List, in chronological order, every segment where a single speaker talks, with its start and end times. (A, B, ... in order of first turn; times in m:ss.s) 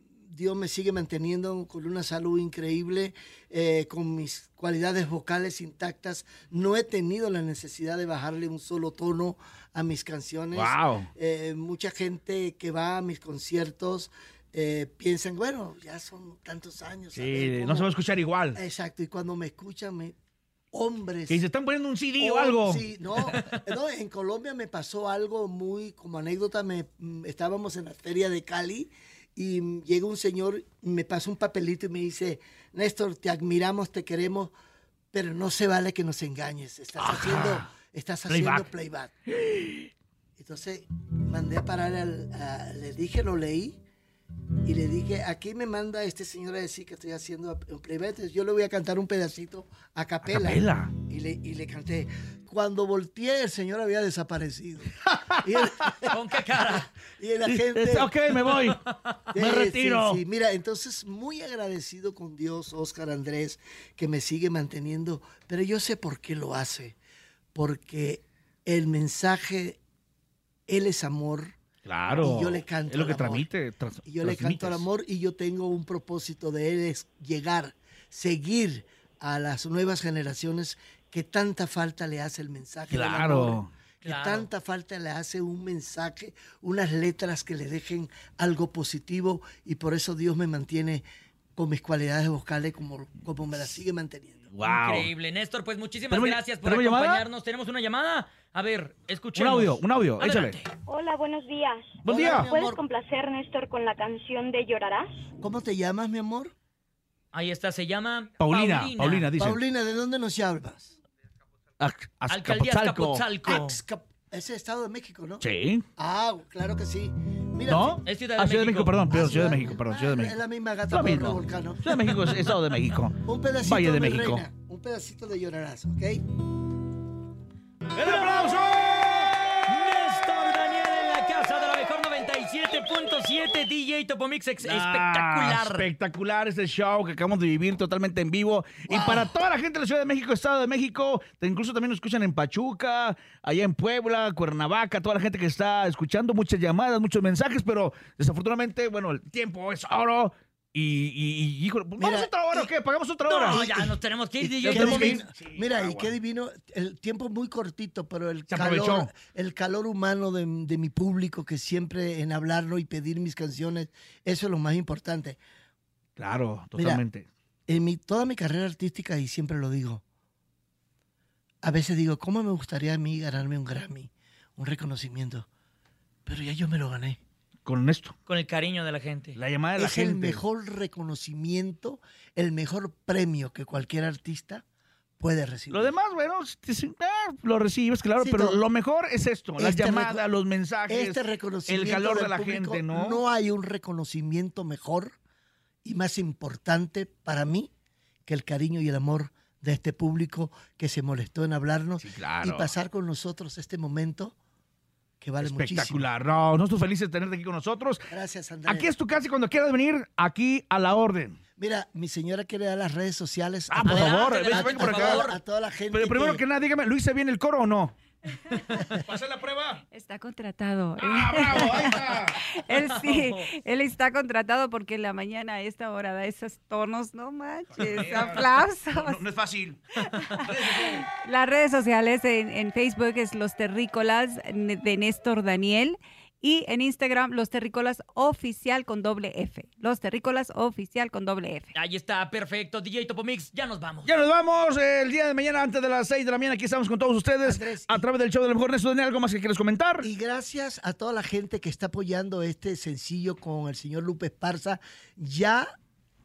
0:00.3-0:17.9 A
0:10.5-0:11.1 B
0:17.1-0:18.6 B
0:18.5-0:20.1 A
0:20.7-0:21.4 A
0:21.3-0:23.3 B
0:22.2-0:34.5 A
0:35.1-0:39.1 A
0:37.0-0:37.7 B
0:38.3-0:38.7 B
0:39.3-0:39.9 B
0:40.4-0:43.8 A
0:44.6-0:58.2 A
0:50.2-0:50.9 B
0:55.0-0:56.1 B
0:56.1-0:56.9 C
0:57.4-1:00.2 B
0:59.3-1:07.0 A
1:07.5-1:09.8 A
1:10.7-1:11.6 A
1:11.8-1:14.8 B
1:12.2-1:13.5 A
1:14.0-1:31.0 A
1:22.9-1:23.7 B
1:24.0-1:24.5 C
1:31.6-1:34.5 A
1:34.5-1:35.1 B
1:34.6-1:40.7 C
1:36.1-1:37.2 B
1:39.4-1:40.6 B
1:40.8-1:45.1 D
1:42.0-1:42.5 B
1:42.1-1:42.8 A
1:45.4-1:46.5 A
1:47.3-1:49.3 C
1:48.4-1:49.6 B
1:49.4-1:51.0 A
1:51.8-1:53.2 B
1:52.3-1:53.8 C
1:53.4-1:55.4 A
1:55.4-1:55.8 B
1:56.0-1:58.0 A
1:57.7-2:04.4 B
1:58.0-1:59.0 C
1:59.1-2:02.0 A
2:03.2-2:06.2 A
2:07.9-2:09.6 B
2:08.0-2:08.6 C
2:09.7-2:15.9 C
2:14.6-2:33.7 B
2:18.9-2:19.3 A
2:32.0-2:32.7 A
2:33.2-2:35.2 C
2:33.4-2:34.0 A
2:34.4-2:36.2 B
2:34.6-2:45.4 A
2:38.5-2:39.1 B
2:46.2-2:47.3 B
2:46.8-2:47.0 A
2:47.7-2:50.0 A
2:51.6-2:55.5 A
2:56.2-2:57.2 A
2:57.6-2:58.1 B
2:58.2-2:59.4 C
2:59.3-3:00.4 B
2:59.8-3:04.6 A
3:05.2-3:05.9 A
3:05.7-3:13.2 B
3:08.2-3:08.6 A
3:09.6-3:10.2 A
3:10.9-3:15.1 A
3:15.8-3:17.7 A
3:18.3-3:24.3 A
3:22.0-3:22.7 B
3:25.2-3:26.0 A
3:25.4-3:28.1 B
3:28.1-3:28.9 A
3:28.7-3:31.4 B
3:31.6-3:36.4 A
3:33.7-3:35.3 B
3:33.8-3:35.4 C
3:35.9-3:38.0 B
3:38.5-3:39.8 B
3:39.9-3:49.2 E
3:41.0-3:42.4 B
3:47.7-3:51.1 B
3:50.0-4:01.7 E
4:01.7-4:04.1 C
4:04.0-4:10.1 B
4:07.4-4:08.0 A
4:10.0-4:15.6 A